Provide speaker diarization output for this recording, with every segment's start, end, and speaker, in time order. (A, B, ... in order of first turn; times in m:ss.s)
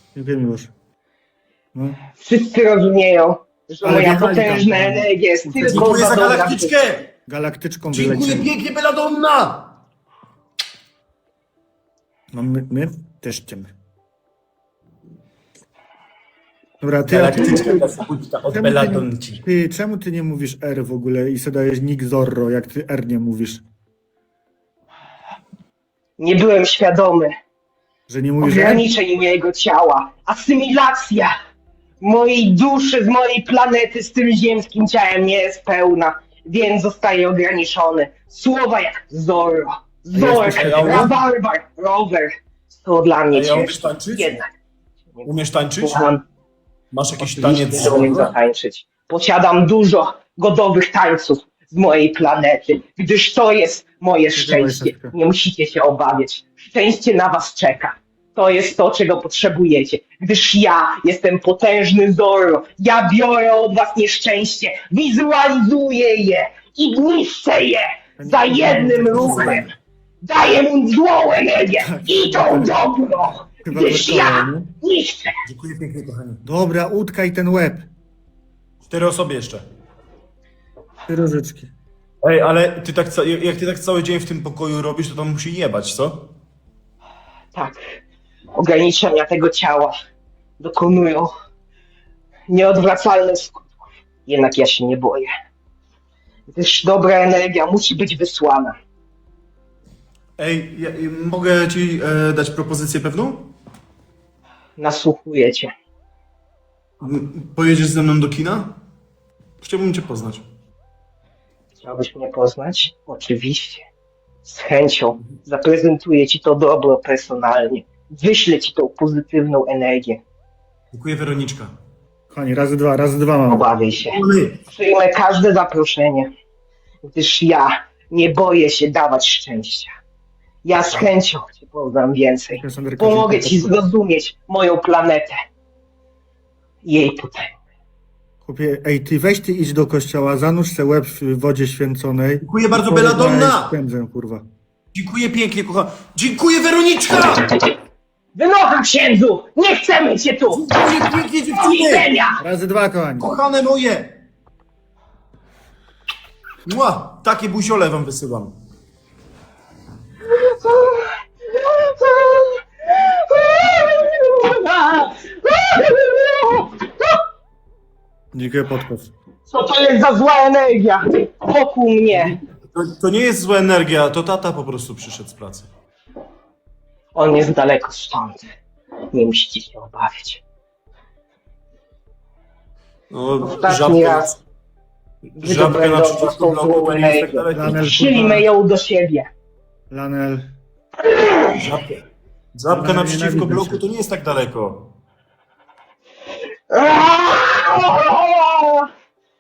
0:00.2-0:00.7 A
0:01.7-0:02.0 A
0:02.2-0:06.8 B
0:03.8-0:05.9 A
0:05.6-0:07.1 C
0:07.3-0:08.5 A
0:07.9-0:09.7 C
0:12.3-0:13.7 A
0:16.8-0:17.9 A
0:17.1-0:19.4 C
0:18.5-0:23.6 A
0:26.2-0:27.4 B
0:28.1-0:28.8 A
0:28.4-0:31.3 B
0:32.0-0:44.5 B
0:40.2-0:41.1 A
0:40.2-0:41.2 C
0:43.3-0:44.3 C
0:45.2-0:46.1 C
0:45.8-0:46.2 B
0:46.9-0:48.3 C
0:47.2-1:09.7 B
0:54.4-0:55.2 A
1:08.2-1:09.7 A
1:10.2-1:15.4 B
1:11.8-1:12.9 A
1:13.5-1:14.7 A
1:15.5-1:16.4 C
1:16.4-1:17.9 A
1:18.8-1:19.6 C
1:21.1-1:21.7 A
1:22.2-1:26.3 C
1:27.5-1:27.9 B
1:28.6-1:30.0 B
1:30.6-1:31.3 B
1:32.5-1:33.7 B
1:34.3-1:35.3 B
1:36.5-1:38.8 B
1:40.4-1:43.5 C
1:44.8-1:45.7 B
1:47.0-1:48.8 C
1:49.6-1:50.4 C
1:51.8-1:53.8 B
1:54.4-2:00.2 B
2:00.9-2:01.7 C
2:02.3-2:03.7 A
2:03.5-2:06.3 B
2:04.1-2:04.6 C
2:07.0-2:09.9 B
2:10.6-2:15.4 B
2:12.5-2:13.8 A
2:16.8-2:17.5 B
2:18.4-2:24.4 A
2:22.4-2:23.7 C
2:24.9-2:27.5 C
2:28.4-2:30.8 B
2:30.5-2:32.1 C
2:31.6-2:32.4 B
2:32.4-2:33.3 A
2:33.2-2:34.1 C
2:36.6-2:38.5 C
2:40.4-2:47.1 B
2:48.3-2:49.1 A
2:49.5-2:52.4 B
2:52.1-2:55.7 C
2:57.2-2:58.4 B
2:59.1-3:00.4 B
3:03.1-3:04.4 C
3:03.4-3:04.3 B
3:05.4-3:08.0 C
3:05.4-3:09.3 B
3:07.5-3:08.5 A
3:09.9-3:10.5 A
3:11.0-3:11.6 B
3:11.5-3:12.0 C
3:12.6-3:14.9 C
3:12.7-3:13.8 A
3:16.7-3:18.9 B